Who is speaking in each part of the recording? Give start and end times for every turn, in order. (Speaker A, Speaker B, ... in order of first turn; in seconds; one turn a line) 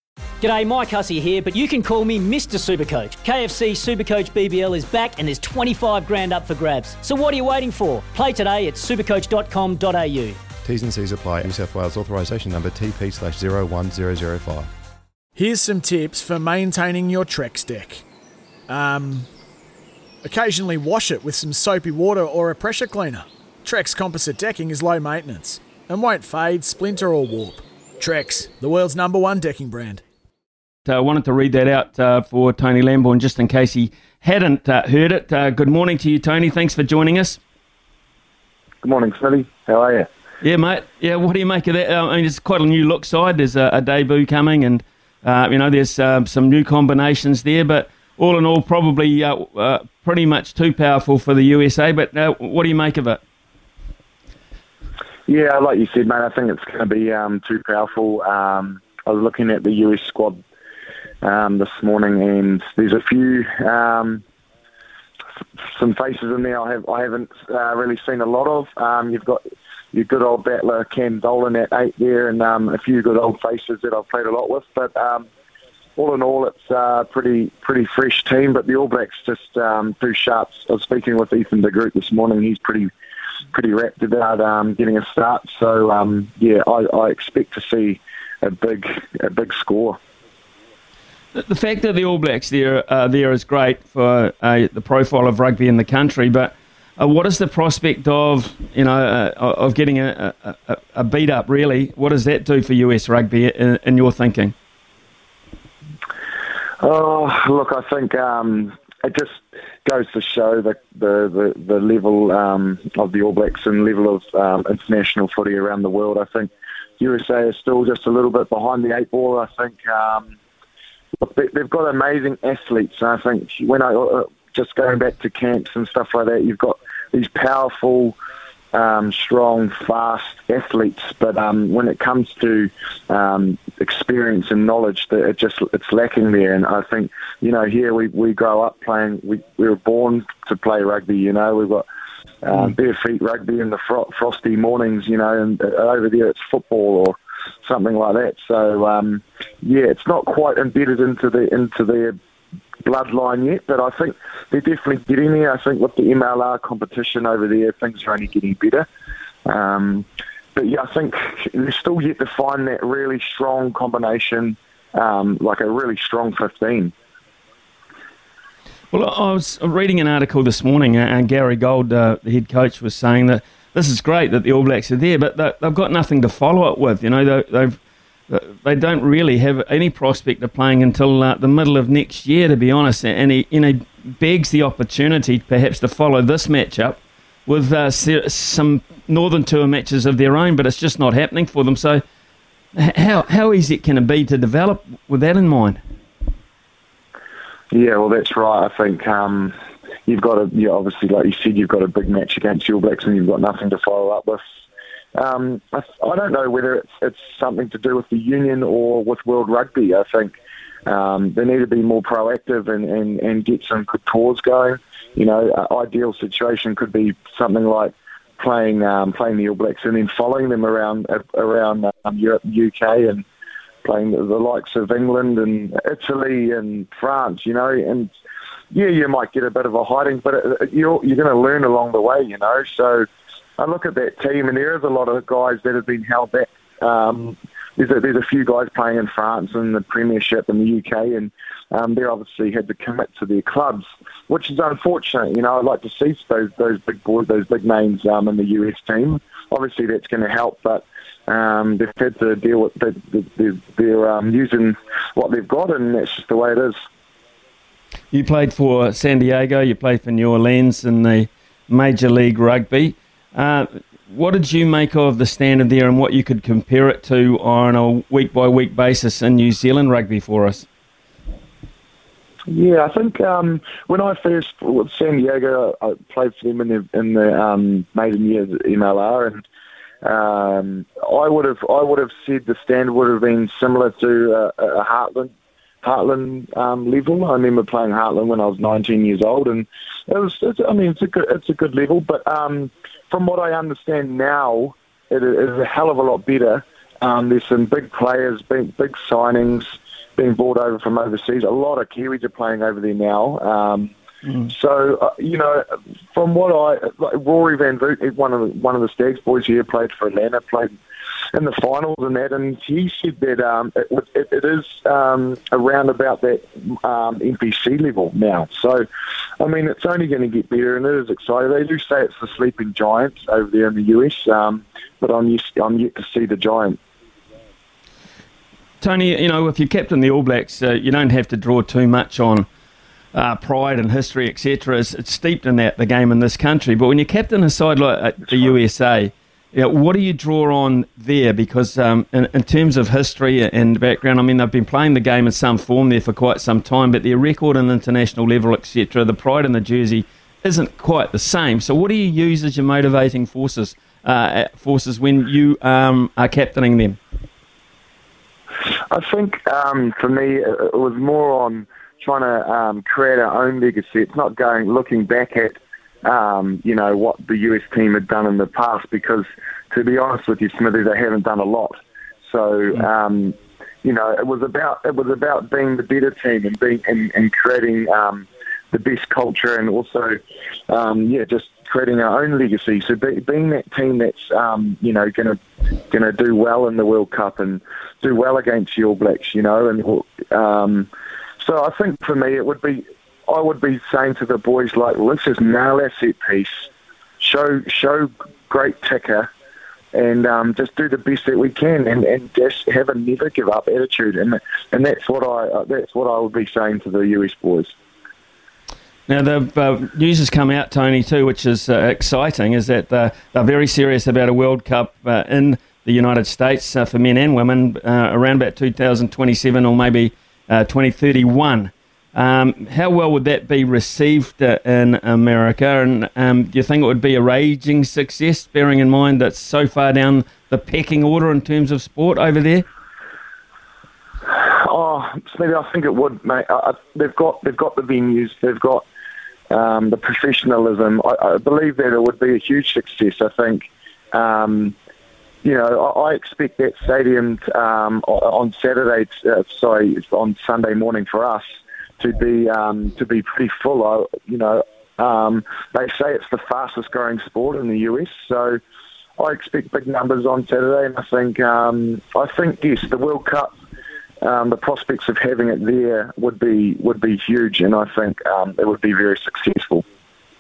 Speaker A: 0.4-10.4
Speaker B: 10.6-14.7
Speaker C: 15.3-18.0
Speaker C: 18.7-19.3
Speaker C: 20.2-30.0
Speaker D: 30.9-37.4
Speaker E: 38.8-40.1
Speaker D: 40.4-53.2
Speaker E: 55.2-60.4
Speaker E: 61.2-64.2
Speaker E: 65.7-75.3
Speaker E: 76.0-82.9
Speaker E: 83.5-90.0
Speaker D: 91.3-104.5
Speaker E: 106.8-120.3
Speaker E: 121.2-128.2
Speaker E: 128.7-141.8
Speaker E: 142.4-152.2
Speaker E: 152.8-158.9
Speaker E: 159.4-166.9
Speaker D: 168.9-177.8
Speaker D: 178.3-192.0
Speaker D: 192.8-195.8
Speaker E: 197.7-199.5
Speaker E: 200.1-204.4
Speaker E: 205.1-210.3
Speaker E: 210.8-223.2
Speaker E: 223.8-228.1
Speaker E: 228.7-233.1
Speaker E: 233.6-256.7
Speaker D: 258.1-270.6
Speaker E: 272.5-279.4
Speaker E: 280.0-285.3
Speaker E: 285.8-303.9
Speaker E: 304.4-310.8
Speaker E: 311.3-318.9
Speaker E: 319.4-326.8
Speaker D: 328.8-332.5
Speaker D: 333.1-357.0
Speaker E: 358.9-380.2
Speaker E: 380.7-396.7
Speaker E: 397.2-399.3
Speaker E: 399.9-407.7
Speaker D: 409.1-432.6
Speaker E: 434.3-438.9
Speaker E: 439.5-444.7
Speaker E: 445.4-458.6
Speaker E: 459.2-463.5
Speaker E: 464.2-469.8